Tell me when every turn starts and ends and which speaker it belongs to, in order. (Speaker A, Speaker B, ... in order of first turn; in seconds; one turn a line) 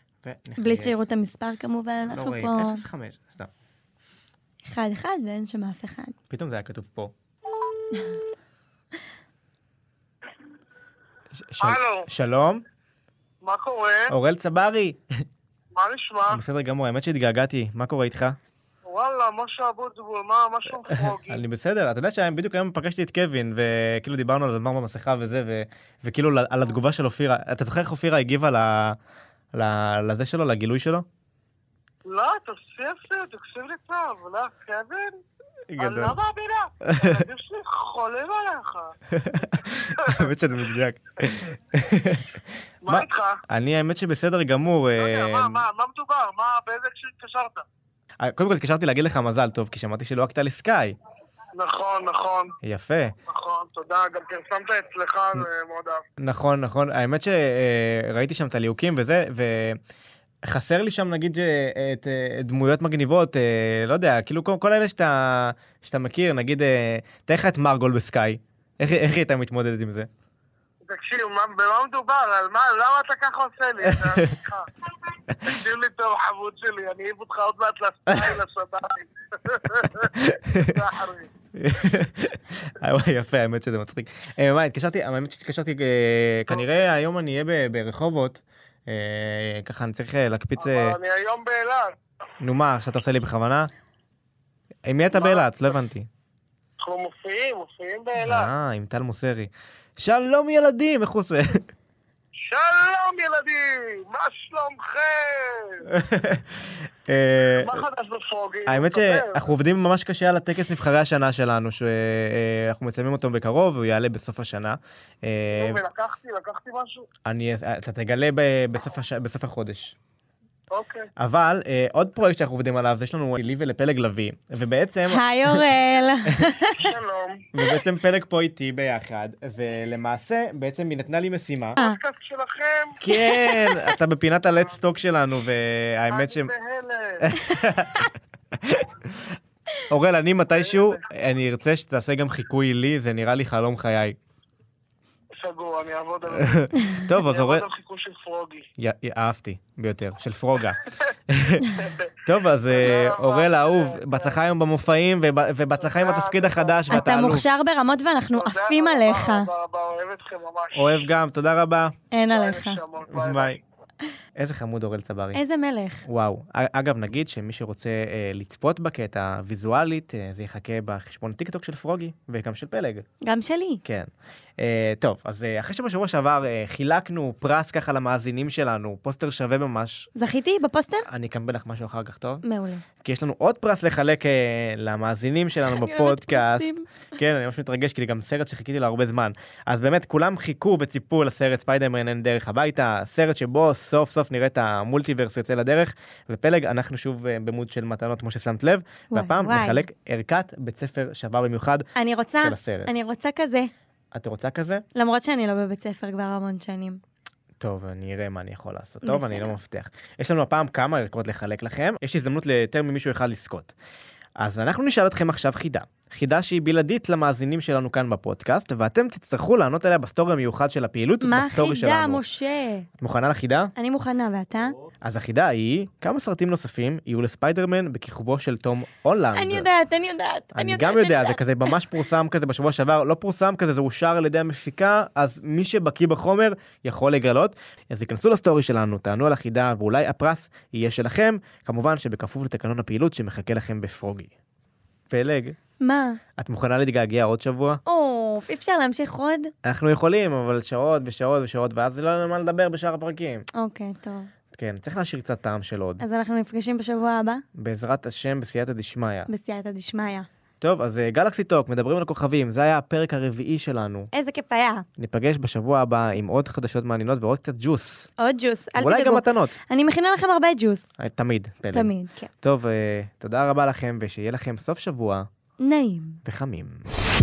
Speaker A: 0.2-0.9
Speaker B: 0.6-2.9
Speaker A: 2.0-3.5
Speaker B: 4.6-6.2
Speaker A: 6.3-7.1
Speaker A: 11.4-12.6
Speaker C: 11.6-12.1
Speaker C: 13.4-14.1
Speaker A: 14.1-15.0
Speaker C: 15.7-16.4
Speaker A: 16.3-18.4
Speaker C: 18.9-21.4
Speaker A: 20.8-29.0
Speaker A: 29.5-31.0
Speaker C: 32.1-35.2
Speaker A: 35.7-36.2
Speaker C: 35.8-38.9
Speaker A: 36.8-37.2
Speaker A: 39.1-45.6
Speaker C: 39.8-40.3
Speaker C: 42.9-43.4
Speaker C: 45.0-47.6
Speaker A: 48.2-51.0
Speaker C: 51.5-52.5
Speaker A: 52.6-53.1
Speaker C: 53.3-56.0
Speaker A: 56.2-59.8
Speaker A: 60.4-70.1
Speaker C: 70.8-74.7
Speaker A: 73.8-74.4
Speaker C: 75.4-81.3
Speaker A: 79.8-80.9
Speaker A: 81.5-91.0
Speaker C: 90.6-92.0
Speaker A: 92.4-93.7
Speaker A: 94.9-96.1
Speaker C: 95.2-95.5
Speaker C: 96.8-98.5
Speaker A: 98.2-101.7
Speaker C: 102.4-105.9
Speaker A: 105.9-107.8
Speaker C: 107.6-109.4
Speaker A: 108.7-115.8
Speaker C: 115.5-117.0
Speaker A: 117.2-120.0
Speaker C: 120.7-121.1
Speaker A: 121.2-126.5
Speaker B: 125.1-126.9
Speaker C: 126.6-127.5
Speaker A: 127.5-131.8
Speaker C: 131.8-133.0
Speaker A: 133.0-136.5
Speaker B: 133.1-134.0
Speaker C: 136.1-137.3
Speaker A: 137.2-138.1
Speaker A: 138.6-139.3
Speaker A: 139.9-144.2
Speaker C: 140.7-141.0
Speaker C: 145.4-148.6
Speaker A: 146.3-147.7
Speaker A: 148.8-157.5
Speaker C: 151.6-152.1
Speaker C: 152.7-154.4
Speaker C: 155.8-157.1
Speaker B: 156.9-159.5
Speaker C: 158.3-161.1
Speaker A: 160.7-161.9
Speaker B: 162.1-162.8
Speaker C: 162.2-163.6
Speaker A: 163.0-163.6
Speaker A: 164.4-165.4
Speaker B: 165.3-166.1
Speaker A: 166.0-173.0
Speaker B: 173.2-173.8
Speaker A: 173.8-180.1
Speaker B: 180.1-181.1
Speaker A: 181.1-182.4
Speaker B: 182.4-182.9
Speaker A: 183.0-201.9
Speaker B: 185.7-186.9
Speaker B: 199.1-199.8
Speaker B: 202.0-203.7
Speaker A: 202.4-202.9
Speaker A: 204.1-204.8
Speaker B: 204.9-207.0
Speaker A: 207.6-213.7
Speaker B: 209.0-209.6
Speaker A: 214.4-222.2
Speaker B: 221.2-222.9
Speaker A: 223.0-223.7
Speaker B: 223.8-224.8
Speaker A: 225.0-229.7
Speaker B: 229.3-232.0
Speaker A: 230.5-244.3
Speaker A: 245.1-245.6
Speaker B: 245.8-246.2
Speaker A: 246.4-247.8
Speaker B: 247.8-249.5
Speaker A: 249.6-253.5
Speaker B: 253.6-254.3
Speaker A: 254.5-256.0
Speaker B: 256.0-257.4
Speaker A: 257.6-259.3
Speaker B: 259.3-260.3
Speaker A: 260.6-264.1
Speaker B: 264.1-264.9
Speaker A: 265.0-268.1
Speaker B: 268.2-270.8
Speaker A: 268.8-269.5
Speaker A: 271.0-275.3
Speaker B: 271.7-272.3
Speaker B: 275.6-276.2
Speaker A: 276.2-276.9